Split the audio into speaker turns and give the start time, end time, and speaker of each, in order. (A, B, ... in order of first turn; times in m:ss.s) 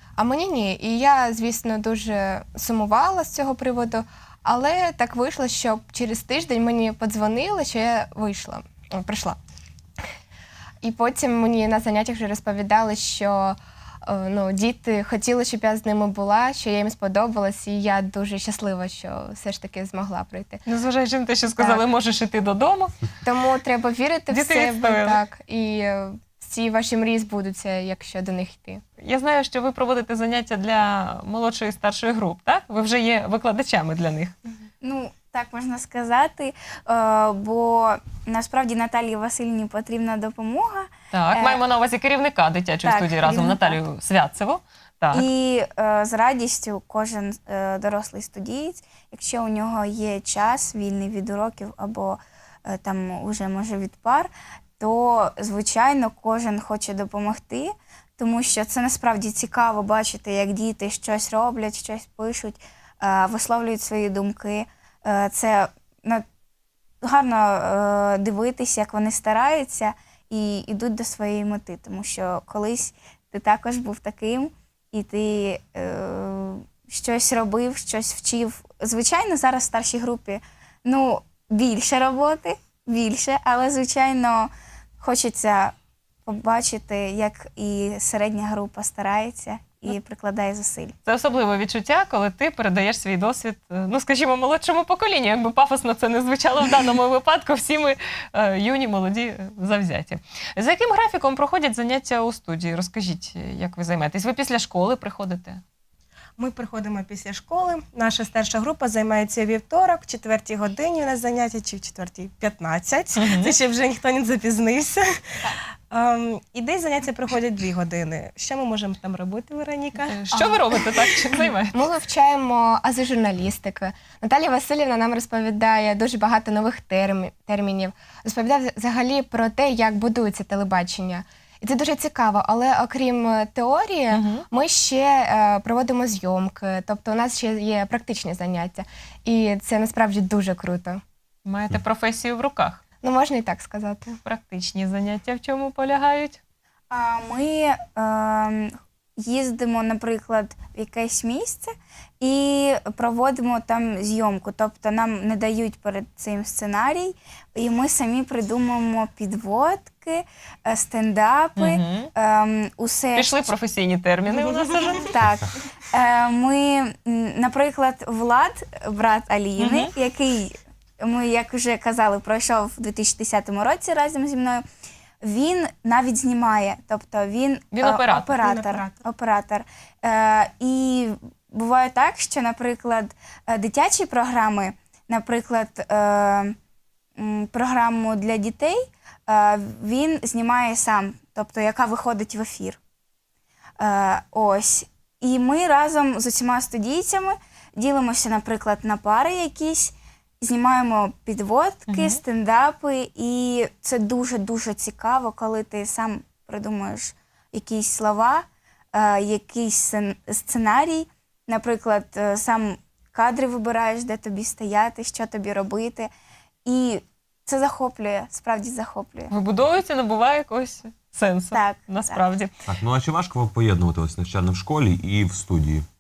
0:00.2-0:09.4 A
0:10.8-0:20.6 A
0:20.7-0:22.9 B
0:21.6-0:21.8 A
0:23.2-0:28.8 A
0:24.3-0:25.2 B
0:29.0-0:34.4 B
0:34.8-0:41.6 C
0:41.1-0:45.3 B
0:42.8-0:43.8 C
0:45.1-1:06.2 C
1:07.0-1:25.8 C
1:26.3-1:31.0 C
1:31.0-1:45.6 B
1:46.4-1:55.2 D
1:53.2-1:53.6 B
1:55.9-2:00.2 D
2:00.1-2:01.8 B
2:00.3-2:00.7 A
2:01.7-2:21.0 A
2:14.1-2:14.5 B
2:21.5-2:22.8 B
2:23.0-2:24.2 A
2:24.2-2:26.4 B
2:26.9-2:43.4 C
2:41.6-2:42.1 B
2:43.2-2:45.2 B
2:44.3-2:45.0 D
2:45.0-2:54.6 C
2:49.6-2:49.9 B
2:55.2-3:06.6 C
2:57.7-2:58.3 B
2:58.3-2:59.0 D
3:07.2-3:12.8 C
3:13.8-3:36.1 C
3:21.9-3:22.2 B
3:36.6-3:39.3 C
3:39.3-3:42.5 B
3:41.5-3:42.2 C
3:42.7-3:45.8 E